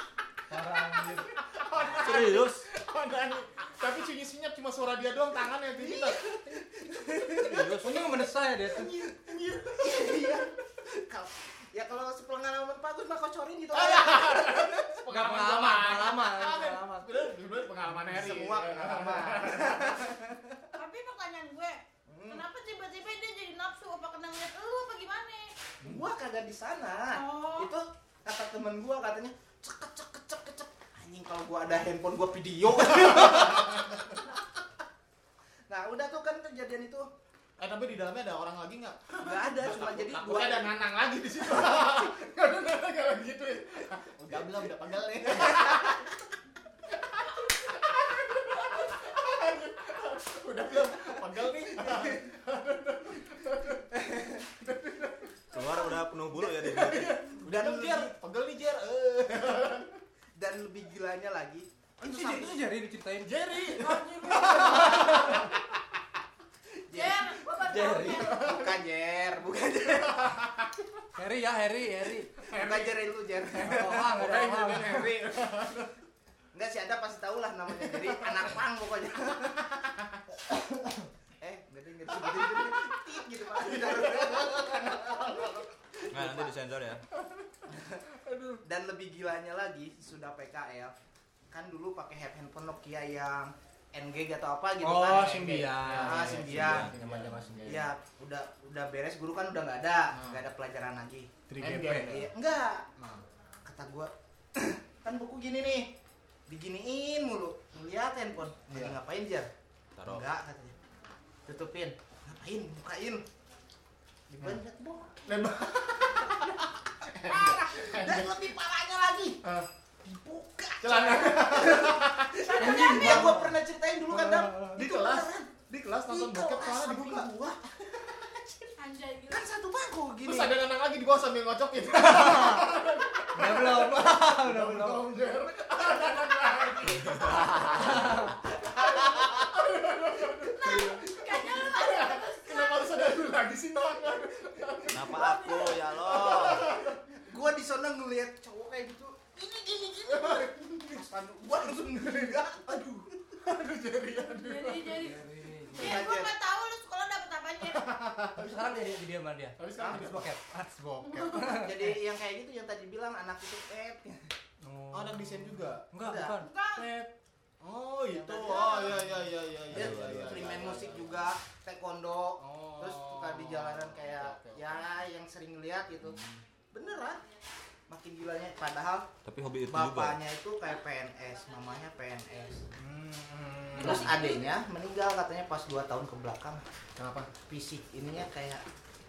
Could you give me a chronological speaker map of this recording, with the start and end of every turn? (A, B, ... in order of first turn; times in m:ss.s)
0:00.5-0:01.3 A
0:01.3-0:06.6 B
0:01.8-0:02.7 C
0:05.8-0:07.7 D
0:07.2-0:07.6 B
0:07.4-0:07.9 C
0:07.5-0:08.9 A
0:08.6-0:10.5 B
0:09.6-0:15.0 D
0:13.7-0:20.2 B
0:15.1-0:17.3 A
0:18.1-0:20.7 D
0:20.8-0:25.5 E
0:22.1-0:22.4 D
0:25.8-0:34.4 D
0:27.1-0:27.7 E
0:32.8-0:34.0 B
0:35.7-0:37.1 D
0:37.6-0:46.1 B
0:39.2-0:40.7 D
0:41.5-0:42.0 D
0:44.3-0:46.1 D
0:48.1-0:53.9 B
0:51.8-0:52.2 D
0:53.9-0:54.5 D
0:54.6-0:55.4 B
0:55.5-0:57.2 C
0:56.4-0:58.1 D
0:56.6-1:00.0 B
1:00.4-1:02.6 D
1:02.0-1:05.5 A
1:03.2-1:05.5 B
1:04.9-1:05.5 D
1:06.9-1:10.4 D
1:06.9-1:08.5 E
1:07.8-1:08.2 A
1:08.2-1:08.8 B
1:10.1-1:10.7 B
1:11.2-1:12.3 A
1:12.4-1:15.9 B
1:12.5-1:15.8 D
1:13.6-1:15.1 A
1:16.5-1:19.7 D
1:17.8-1:18.5 B
1:21.4-1:26.5 D
1:22.1-1:25.6 B
1:26.1-1:27.0 C
1:27.2-1:28.6 B
1:28.6-1:31.0 D
1:31.5-1:36.9 D
1:34.8-1:37.9 A
1:35.1-1:37.9 B
1:36.5-1:36.9 C
1:37.6-1:41.3 D
1:40.1-1:40.4 B
1:41.5-1:42.1 A
1:41.5-1:42.3 B
1:41.8-1:42.9 D
1:43.0-1:43.2 B
1:43.6-1:45.9 D
1:46.5-1:49.5 D
1:48.7-1:49.0 B
1:50.0-1:50.3 C
1:50.0-1:50.8 D
1:51.5-1:53.2 D
1:54.3-1:56.6 D
1:55.3-1:58.4 B
1:57.2-1:59.4 D
1:59.4-1:59.7 B
2:00.0-2:05.5 D
2:00.8-2:03.5 B
2:02.6-2:03.5 A
2:02.7-2:03.1 E
2:04.1-2:07.3 B
2:04.2-2:04.8 A
2:06.1-2:08.7 D
2:08.8-2:09.5 E
2:09.3-2:10.6 D
2:10.2-2:27.0 B
2:11.9-2:12.7 A
2:13.3-2:15.1 A
2:17.2-2:17.7 C
2:17.4-2:17.8 D
2:17.8-2:18.3 A
2:18.5-2:19.6 D
2:20.5-2:22.9 E
2:24.9-2:26.6 C
2:25.0-2:33.3 D
2:29.4-2:31.0 B
2:32.0-2:32.4 B
2:33.4-2:35.1 B
2:34.2-2:35.2 E
2:34.9-2:36.0 A
2:35.7-2:37.9 E
2:35.8-2:36.3 D
2:37.6-2:38.8 B
2:38.4-2:42.0 A
2:39.6-2:40.3 B
2:39.8-2:40.1 D
2:41.1-2:41.4 E
2:41.4-2:44.3 D
2:44.6-2:47.1 A
2:44.9-2:45.9 B
2:46.0-2:46.4 D
2:46.4-2:46.9 E
2:47.6-2:51.2 B
2:48.1-2:56.2 D
2:49.7-2:51.0 C
2:52.4-2:55.1 B
2:56.0-2:56.4 C
2:56.7-2:57.2 D
2:57.9-2:59.1 D
2:59.2-3:00.2 C
2:59.7-3:02.7 D
3:02.8-3:04.2 B
3:03.8-3:06.6 D
3:03.8-3:04.3 E
3:07.0-3:07.3 B
3:07.4-3:08.6 D